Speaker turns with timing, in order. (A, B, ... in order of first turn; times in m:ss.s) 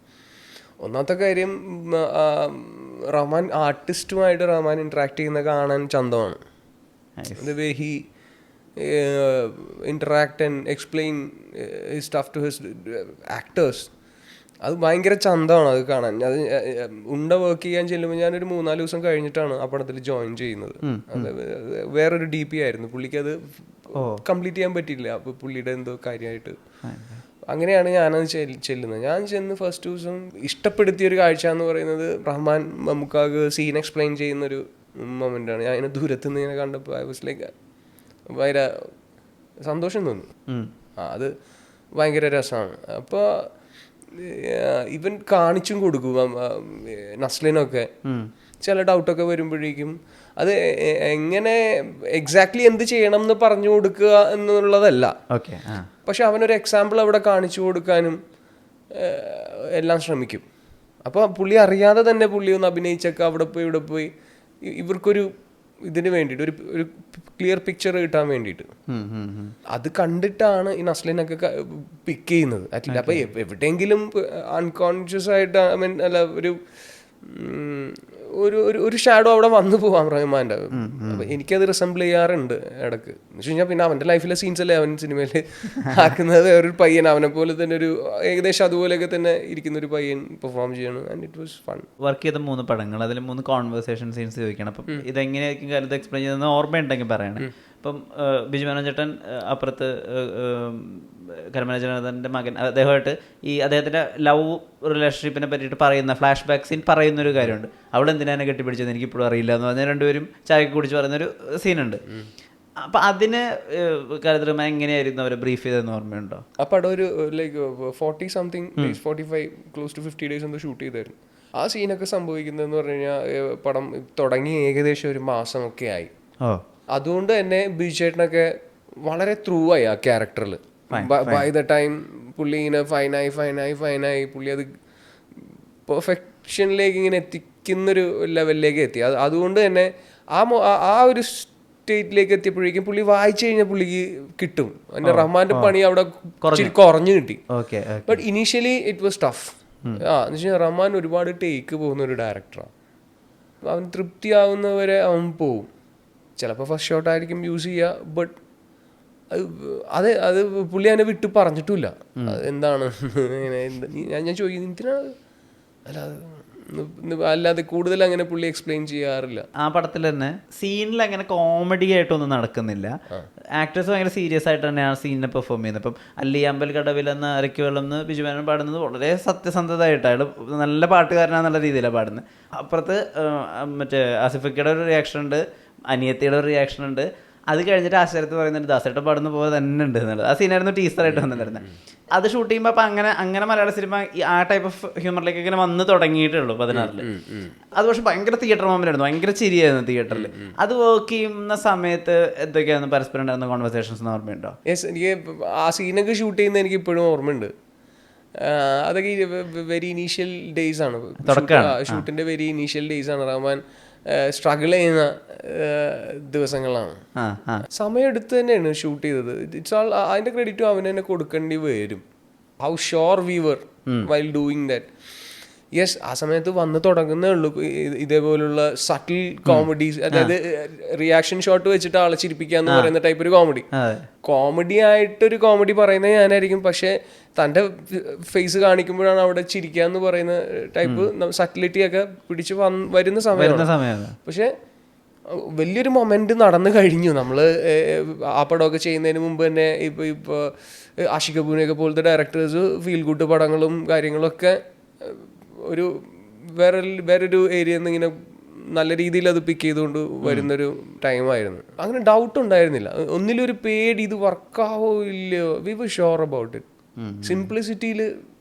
0:00.8-0:06.4 A
0:07.2-0:07.4 B
0:07.4-0:08.0 A
0:08.8-0:13.9 A
0:14.6-0:26.6 A
0:20.8-0:21.3 B
0:24.0-0:24.2 B
0:26.8-0:27.2 B
0:27.5-0:37.5 A
0:38.3-0:38.7 A
0:39.6-0:40.3 A
0:41.0-0:41.3 A
0:42.0-0:43.2 A
0:44.1-0:47.9 A
0:48.6-0:51.6 A
0:52.1-0:55.1 A
0:55.3-0:55.9 B
0:56.0-0:58.2 A
0:58.9-1:00.4 A
1:01.0-1:04.1 A
1:04.7-1:05.2 A
1:05.9-1:08.7 A
1:08.9-1:09.5 B
1:09.7-1:16.6 A
1:12.9-1:13.3 B
1:17.2-1:31.9 A
1:20.7-1:21.3 B
1:32.0-1:52.0 B
1:52.8-1:56.4 B
1:56.6-2:06.1 A
2:06.9-2:08.5 A
2:09.0-2:14.7 A
2:10.9-2:11.5 B
2:15.3-2:27.4 A
2:25.0-2:25.7 B
2:26.4-2:26.7 B
2:27.5-2:28.2 B
2:28.1-2:32.7 A
2:33.7-2:35.7 A
2:36.4-2:38.4 A
2:39.3-2:45.1 A
2:45.9-2:49.4 A
2:49.6-2:52.9 B
2:53.6-3:11.6 B
3:11.1-3:11.8 A
3:12.2-3:17.0 B
3:16.7-3:17.5 A
3:17.8-3:24.5 B
3:20.1-3:20.5 A
3:24.7-3:27.5 A
3:28.4-3:37.0 A
3:31.2-3:32.0 B
3:37.2-3:37.6 B
3:37.7-3:42.0 A
3:42.6-3:44.9 A
3:45.8-3:53.7 A
3:49.4-3:50.3 B
3:53.7-3:54.1 B
3:54.2-4:03.7 A
4:03.3-4:04.1 B
4:04.2-4:04.5 A
4:05.6-4:18.1 A
4:18.7-4:26.6 A
4:20.2-4:20.5 B
4:27.0-4:27.5 B
4:27.2-4:28.0 A